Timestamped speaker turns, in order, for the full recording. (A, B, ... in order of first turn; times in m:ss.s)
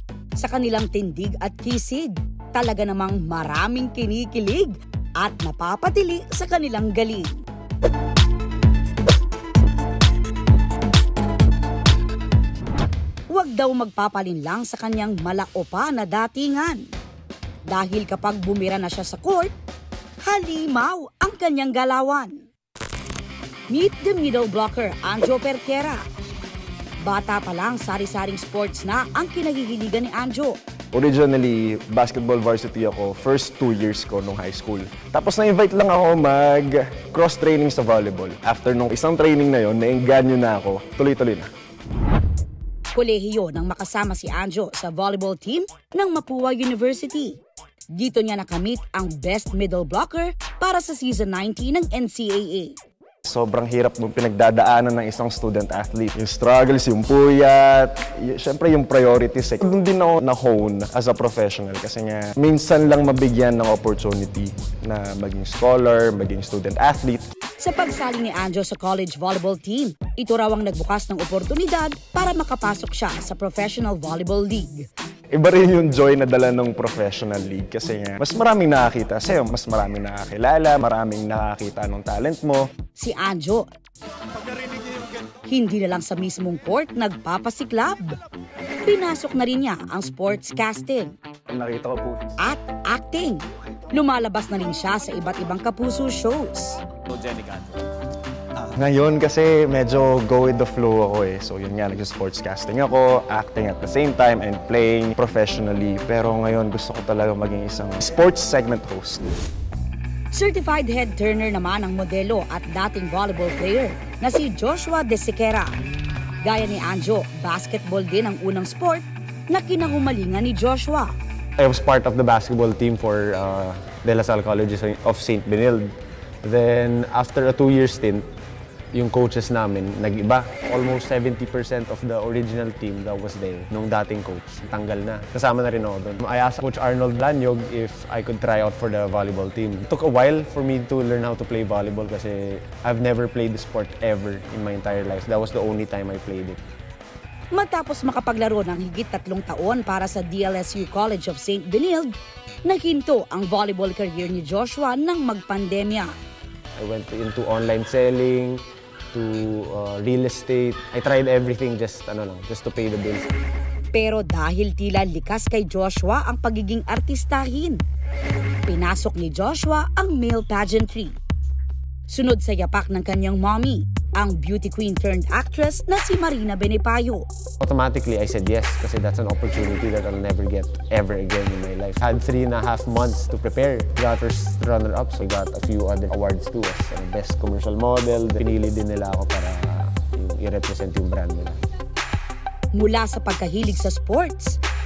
0:00.4-0:07.4 A
0:13.3-0:16.8 A
0:17.7-0:19.5 A
0:20.2-0:22.4 A
0:23.7-0:26.0 A
0:27.0-0:30.6 A
0:30.9-0:41.5 B
0:42.9-0:47.4 A
0:47.9-0:52.7 A
0:53.2-1:07.2 B
1:07.6-1:14.9 A
1:15.3-1:22.7 B
1:23.0-1:23.6 A
1:25.5-1:28.2 A
1:28.8-1:31.1 A
1:31.5-1:32.3 B
1:32.4-1:36.8 A
1:38.7-1:49.2 B
1:50.3-1:55.7 A
1:56.4-2:01.1 A
2:01.6-2:05.9 C
2:06.4-2:08.2 C
2:08.9-2:26.6 C
2:27.5-2:32.1 A
2:32.6-2:36.1 A
2:36.8-2:38.6 C
2:39.1-2:43.3 C
2:43.9-2:47.8 A
2:48.7-2:51.1 A
2:52.1-2:57.2 A
2:57.6-3:11.6 C
3:12.7-3:14.6 A